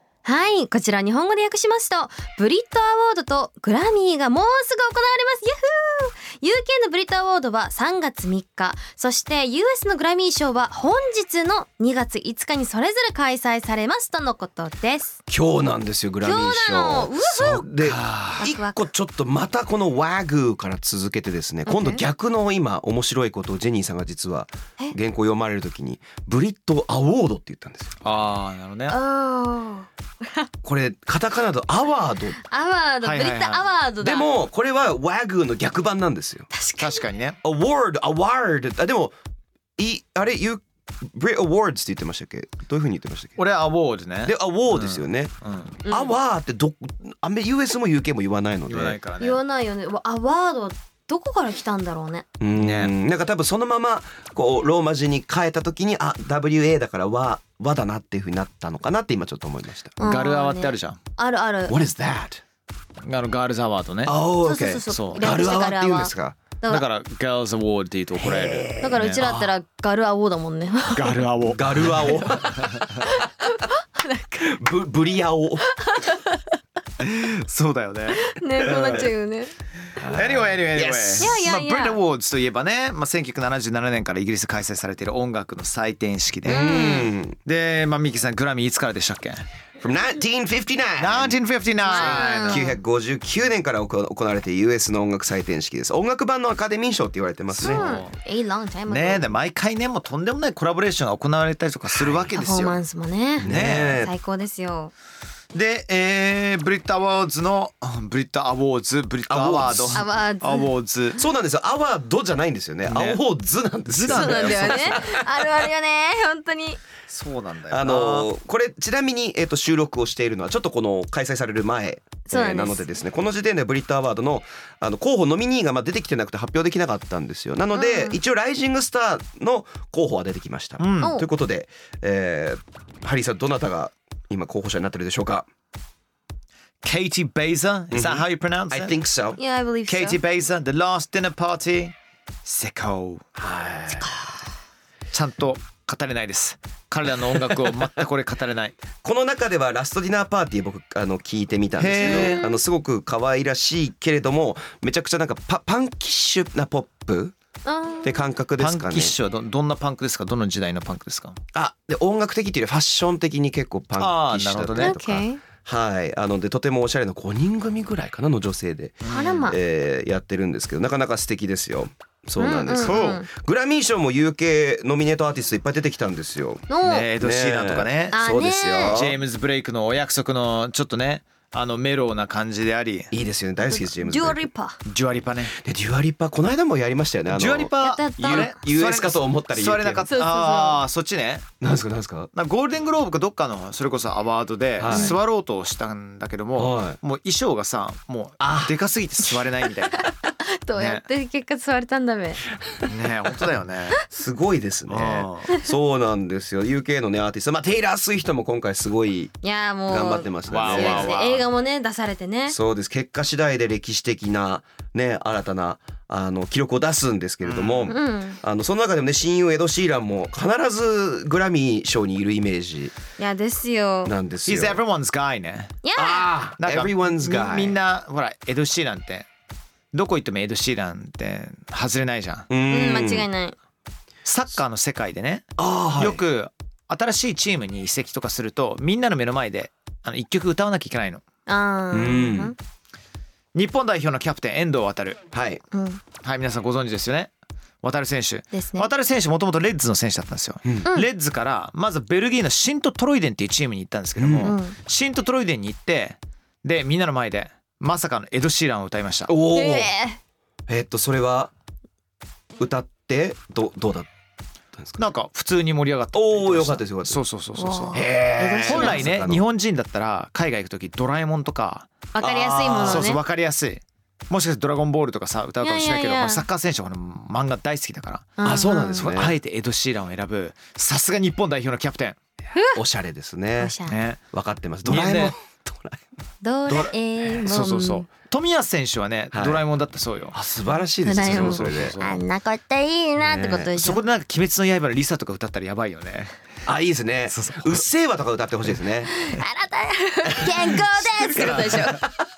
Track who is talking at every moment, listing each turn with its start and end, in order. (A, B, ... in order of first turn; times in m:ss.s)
0:00.2-0:15.2 A
0:15.3-0:28.0 B
0:16.2-0:17.9 A
0:17.9-0:18.5 C
0:18.4-0:18.8 A
0:21.7-0:22.0 A
0:28.0-0:29.0 C
0:28.9-0:30.5 A
0:30.6-0:32.4 B
0:32.4-0:34.3 A
0:33.0-0:33.6 C
0:34.0-0:36.5 B
0:36.5-0:37.0 A
0:36.8-0:37.4 C
0:37.4-0:39.2 B
0:39.8-0:43.4 B
0:43.4-0:45.8 C
0:44.2-0:45.3 B
0:45.8-0:46.1 A
0:45.8-0:49.0 B
0:48.7-0:49.4 C
0:49.2-0:52.3 A
0:52.4-1:00.0 B
0:52.6-0:52.9 C
1:00.0-1:01.8 A
1:00.0-1:01.0 C
1:01.7-1:02.4 B
1:03.0-1:04.2 C
1:04.0-1:06.4 B
1:04.4-1:06.8 A
1:04.9-1:05.2 C
1:06.7-1:09.3 C
1:08.2-1:09.5 B
1:08.8-1:11.2 A
1:10.9-1:13.0 C
1:11.5-1:13.1 B
1:13.0-1:14.6 A
1:14.4-1:15.7 B
1:15.6-1:16.5 A
1:17.0-1:19.0 C
1:18.2-1:19.5 A
1:18.6-1:19.1 B
1:20.0-1:21.4 B
1:20.1-1:26.8 C
1:21.2-1:22.0 A
1:26.5-1:27.4 B
1:26.5-1:27.1 A
1:27.4-1:29.4 C
1:29.8-1:31.4 B
1:31.0-1:32.7 C
1:31.9-1:32.8 A
1:31.9-1:38.0 B
1:37.6-1:38.1 C
1:37.6-1:39.3 A
1:38.9-1:42.8 C
1:42.3-1:44.9 A
1:43.4-1:44.1 B
1:43.4-1:44.0 C
1:45.5-1:51.2 C
1:49.3-1:50.0 B
1:49.9-1:50.7 A
1:51.2-1:55.5 B
1:52.9-1:53.2 C
1:53.9-1:55.0 C
1:54.1-1:56.8 A
1:57.1-1:58.3 C
1:57.7-2:15.5 B
2:02.3-2:02.8 A
2:07.8-2:08.2 A
2:10.8-2:11.2 C
2:11.0-2:11.3 A
2:16.8-2:19.0 C
2:17.9-2:19.4 B
2:19.4-2:20.2 A
2:19.9-2:23.2 C
2:23.4-2:24.2 B
2:25.1-2:28.8 C
2:27.4-2:27.7 B
2:29.0-2:37.4 B
2:31.8-2:32.4 C
2:32.0-2:32.6 A
2:37.6-2:38.2 A
2:38.0-2:39.2 B
2:38.6-2:41.4 C
2:41.5-2:59.2 B
2:44.0-2:45.0 C
2:44.8-2:45.4 A
2:49.0-2:49.5 C
2:49.1-2:49.6 A
2:52.4-2:53.3 A
2:52.8-2:53.2 C
2:56.7-2:57.1 A
2:56.8-2:58.2 C
2:58.1-2:59.0 A
2:58.8-3:03.1 C
3:03.1-3:04.5 B
3:03.7-3:04.8 A
3:04.9-3:05.6 C
3:05.5-3:10.1 B
3:07.3-3:11.5 C
3:07.8-3:08.5 A
3:10.1-3:10.8 A
3:11.6-3:12.3 B
3:12.3-3:20.1 C
3:14.8-3:15.2 B
3:14.9-3:15.2 A
3:16.6-3:17.0 B
3:18.4-3:18.8 B
3:20.0-3:22.4 A
3:20.8-3:21.0 C
3:22.9-3:24.0 C
3:24.1-3:29.3 B
3:24.9-3:25.5 C
3:29.4-3:32.6 A
3:29.9-3:31.2 B
3:30.5-3:31.4 C
3:32.5-3:42.9 B
3:37.4-3:38.0 C
3:37.9-3:38.4 A
3:43.2-3:44.1 A
3:44.1-3:44.8 B
3:44.4-3:45.8 C
3:45.8-3:46.4 A
3:46.0-3:47.8 B
3:46.6-3:49.3 C
3:49.9-3:52.5 C
3:52.5-3:53.3 B
3:52.7-3:53.6 A
3:54.2-4:01.2 C
3:55.6-3:56.2 B
4:01.5-4:02.6 A
4:01.9-4:02.6 B
4:03.6-4:05.2 C
4:05.3-4:05.6 B
4:05.7-4:06.0 A
4:06.2-4:07.3 C
4:07.8-4:19.3 C
4:08.5-4:08.9 A
4:14.2-4:14.6 B
4:14.4-4:14.8 A
4:19.3-4:19.9 B
4:19.5-4:20.2 A
4:20.7-4:21.5 B
4:22.6-4:24.1 B
4:24.8-4:25.0 B
4:25.0-4:31.9 C
4:26.1-4:27.2 B
4:27.6-4:29.1 A
4:27.9-4:29.4 B
4:32.1-4:33.2 A
4:32.2-4:33.1 B
4:32.8-4:38.3 C
4:35.6-4:36.4 A
4:38.4-4:39.1 A
4:38.4-4:39.4 B
4:39.0-4:42.2 C
4:42.5-4:42.8 A
4:42.7-4:43.8 B
4:43.6-4:44.0 A
4:43.9-4:44.2 C
4:44.3-4:46.0 B
4:44.8-4:45.4 C
4:46.4-4:48.1 A
4:47.4-4:50.4 C
4:49.3-4:49.6 B
4:50.3-4:52.0 B
4:51.0-4:54.0 A
4:51.2-4:52.2 C
4:53.2-4:53.7 B
4:53.7-4:56.4 C
4:56.6-4:59.1 B
4:57.3-4:57.8 C
4:59.1-5:02.0 A
5:00.3-5:02.1 B
5:01.2-5:02.0 C